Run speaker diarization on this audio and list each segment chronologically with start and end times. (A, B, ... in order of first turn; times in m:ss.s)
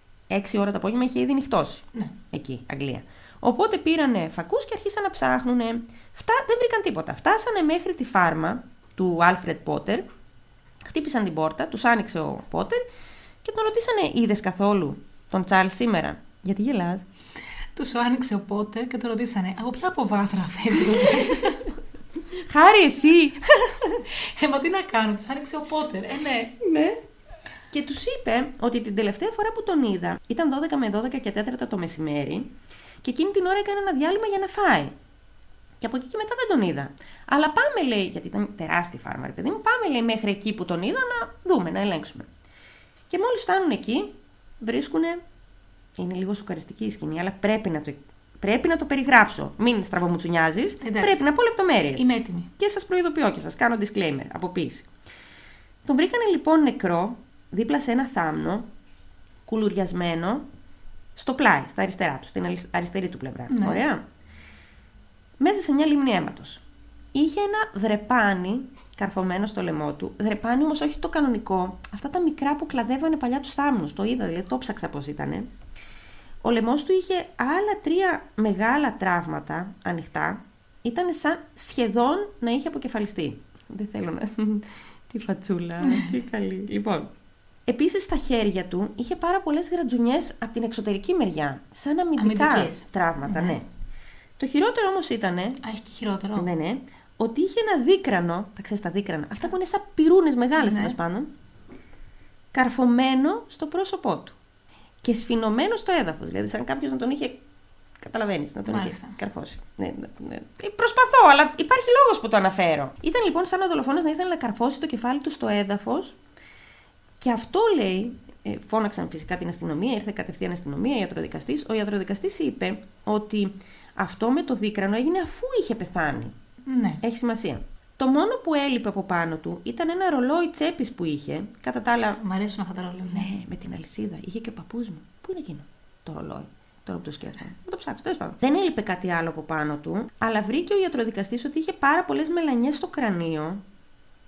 0:00.3-0:10.0 A
0:10.8-0:12.8 A
0:13.4-0:17.0 A
0:17.8-0:21.7 B
0:21.0-0:21.6 A
0:22.3-0:24.0 A
0:24.1-0:26.6 B
0:26.6-0:27.0 A
0:27.7-0:35.0 A
0:35.8-0:42.3 A
0:43.1-0:45.2 A
0:46.0-0:54.9 A
0:50.8-0:51.3 B
0:51.9-0:52.5 B
0:55.8-0:58.7 A
0:59.4-1:00.5 A
1:01.1-1:04.0 A
1:03.5-1:03.8 B
1:05.4-1:06.6 A
1:07.1-1:15.5 A
1:16.4-1:27.1 A
1:25.8-1:26.1 B
1:27.7-1:33.6 A
1:32.2-1:33.6 B
1:34.4-1:35.6 A
1:35.6-1:36.5 B
1:36.4-1:41.3 A
1:40.6-1:41.0 B
1:42.5-1:44.4 A
1:45.0-1:47.4 A
1:48.0-1:56.2 A
1:48.7-1:49.2 B
1:57.2-2:06.3 A
2:06.6-2:07.0 B
2:07.0-2:12.2 A
2:12.1-2:13.3 B
2:13.1-2:23.6 A